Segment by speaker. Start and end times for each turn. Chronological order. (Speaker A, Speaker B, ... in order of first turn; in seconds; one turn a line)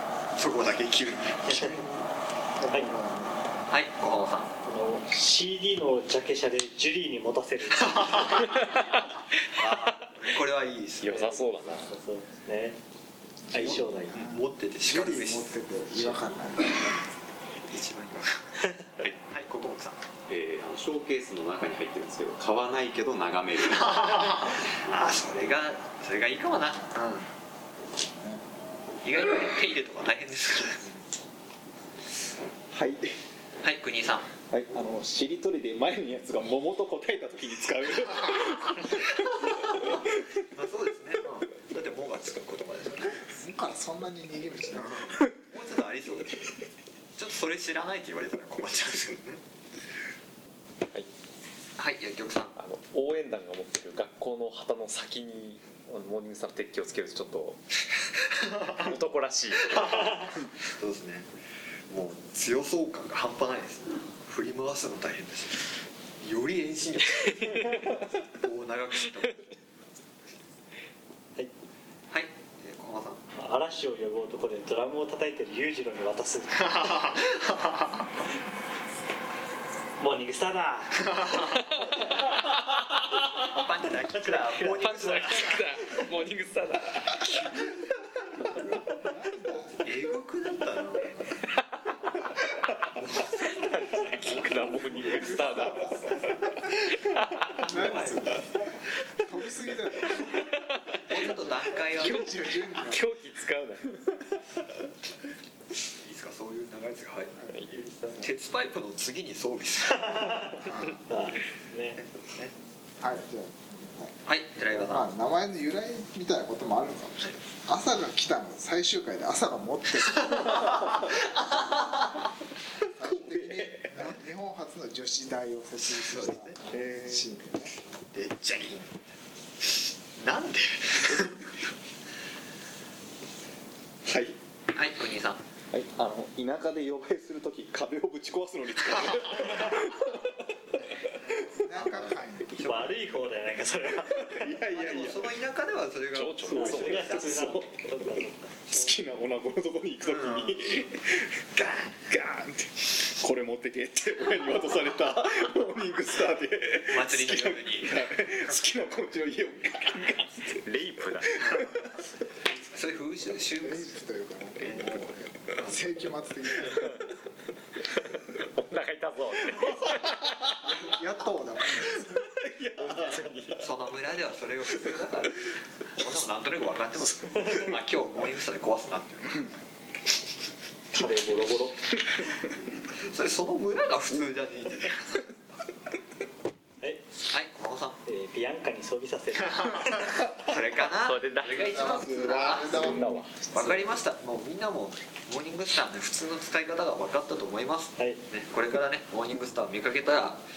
Speaker A: 0.3-2.0
Speaker B: 1.7-2.0
Speaker B: 2.5-3.6
Speaker A: 3.7-4.5
Speaker C: 4.6-8.6
Speaker A: 9.5-11.2
Speaker D: 11.0-11.9
Speaker C: 11.1-12.8
Speaker B: 13.5-17.0
Speaker C: 13.5-14.2
Speaker A: 14.1-16.2
Speaker A: 17.6-18.6
Speaker A: 19.2-20.1
Speaker E: 20.3-24.3
Speaker A: 23.7-27.3
Speaker B: 28.0-28.4
Speaker A: 29.0-30.9
Speaker F: 32.7-33.1
Speaker A: 33.6-34.3
Speaker F: 34.5-39.0
Speaker A: 38.8-43.3
Speaker B: 43.2-45.2
Speaker A: 44.7-46.5
Speaker A: 47.2-49.4
Speaker A: 51.8-52.5
Speaker D: 52.5-57.6
Speaker D: 58.7-60.3
Speaker A: 59.7-61.3
Speaker A: 61.9-69.4
Speaker D: 67.4-67.7
Speaker A: 72.1-73.2
Speaker C: 73.3-77.2
Speaker A: 76.8-77.7
Speaker C: 80.0-81.5
Speaker D: 81.6-82.4
Speaker A: 83.5-85.6
Speaker C: 84.1-85.5
Speaker D: 84.8-87.6
Speaker B: 88.4-89.8
Speaker A: 89.8-91.3
Speaker A: 93.0-93.3
Speaker D: 93.2-97.8
Speaker B: 94.9-96.3
Speaker B: 97.6-100.5
Speaker A: 97.6-98.5
Speaker D: 100.3-100.9
Speaker A: 101.0-102.3
Speaker B: 101.1-103.0
Speaker D: 102.0-104.2
Speaker A: 106.0-107.4
Speaker B: 107.3-108.3
Speaker C: 107.7-108.2
Speaker A: 108.2-110.6
Speaker C: 110.0-110.5
Speaker B: 110.6-111.0
Speaker C: 111.0-112.0
Speaker A: 112.0-112.5
Speaker B: 113.0-114.2
Speaker A: 114.2-115.1
Speaker B: 114.7-120.7
Speaker A: 120.1-121.0
Speaker B: 122.9-127.8
Speaker F: 123.1-123.7
Speaker D: 123.3-124.0
Speaker A: 125.8-126.6
Speaker F: 126.7-127.3
Speaker A: 128.1-129.0
Speaker A: 130.2-131.5
Speaker F: 134.1-134.4
Speaker A: 134.7-135.4
Speaker F: 135.7-140.2
Speaker B: 141.4-142.6
Speaker A: 141.6-143.3
Speaker C: 142.6-144.7
Speaker F: 144.0-145.3
Speaker A: 144.7-147.5
Speaker D: 146.1-147.6
Speaker F: 146.5-151.4
Speaker C: 146.5-148.9
Speaker A: 150.0-150.9
Speaker A: 151.5-152.0
Speaker F: 152.1-160.6
Speaker A: 156.9-158.1
Speaker D: 160.4-161.6
Speaker F: 161.4-162.0
Speaker A: 162.7-164.0
Speaker B: 163.6-167.1
Speaker A: 164.6-165.0
Speaker D: 167.9-170.3
Speaker B: 170.6-172.3
Speaker D: 172.0-173.6
Speaker F: 172.7-173.6
Speaker A: 173.5-179.5
Speaker C: 180.9-181.8
Speaker A: 182.9-185.4
Speaker C: 186.8-187.1
Speaker A: 187.2-188.0
Speaker C: 188.0-190.3
Speaker A: 190.4-200.4
Speaker D: 190.8-193.8
Speaker B: 191.6-193.2
Speaker C: 197.9-198.2